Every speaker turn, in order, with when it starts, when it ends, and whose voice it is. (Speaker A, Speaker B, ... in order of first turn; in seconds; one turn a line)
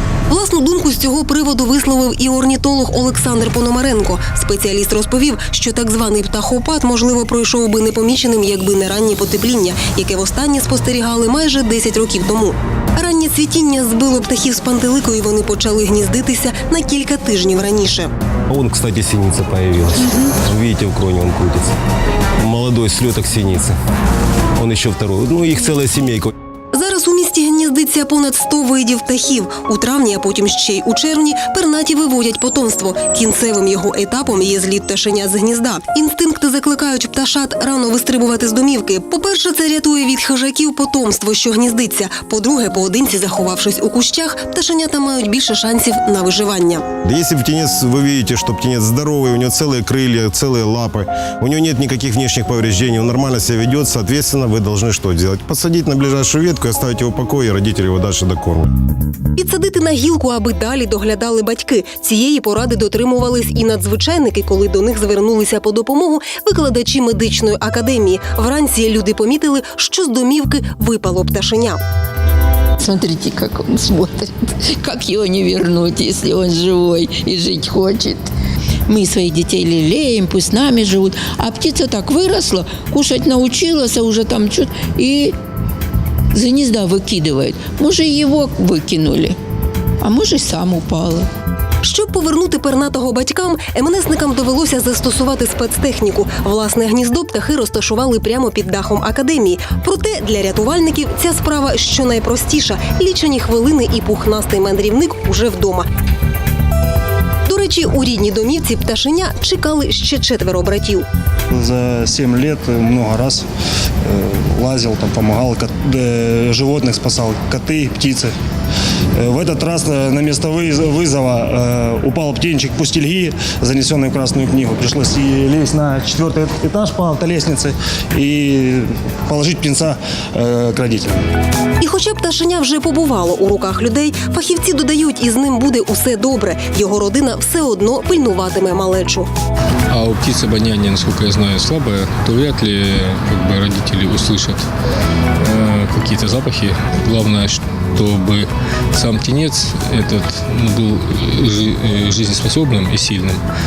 Speaker A: 0.3-18.1
Speaker B: 18.5-21.7
Speaker B: 22.4-23.7
Speaker B: 24.6-26.3
Speaker A: 26.7-46.9
Speaker B: 47.0-58.7
Speaker A: 59.4-71.8
Speaker C: 72.8-78.3
Speaker C: 78.9-85.3
Speaker C: 86.3-89.4
Speaker C: 90.0-91.3
Speaker A: 91.8-105.9
Speaker A: 107.5-111.1
Speaker D: 111.5-113.5
Speaker D: 114.0-118.3
Speaker D: 119.2-131.3
Speaker A: 131.8-139.3
Speaker E: 139.9-144.7
Speaker E: 145.4-153.4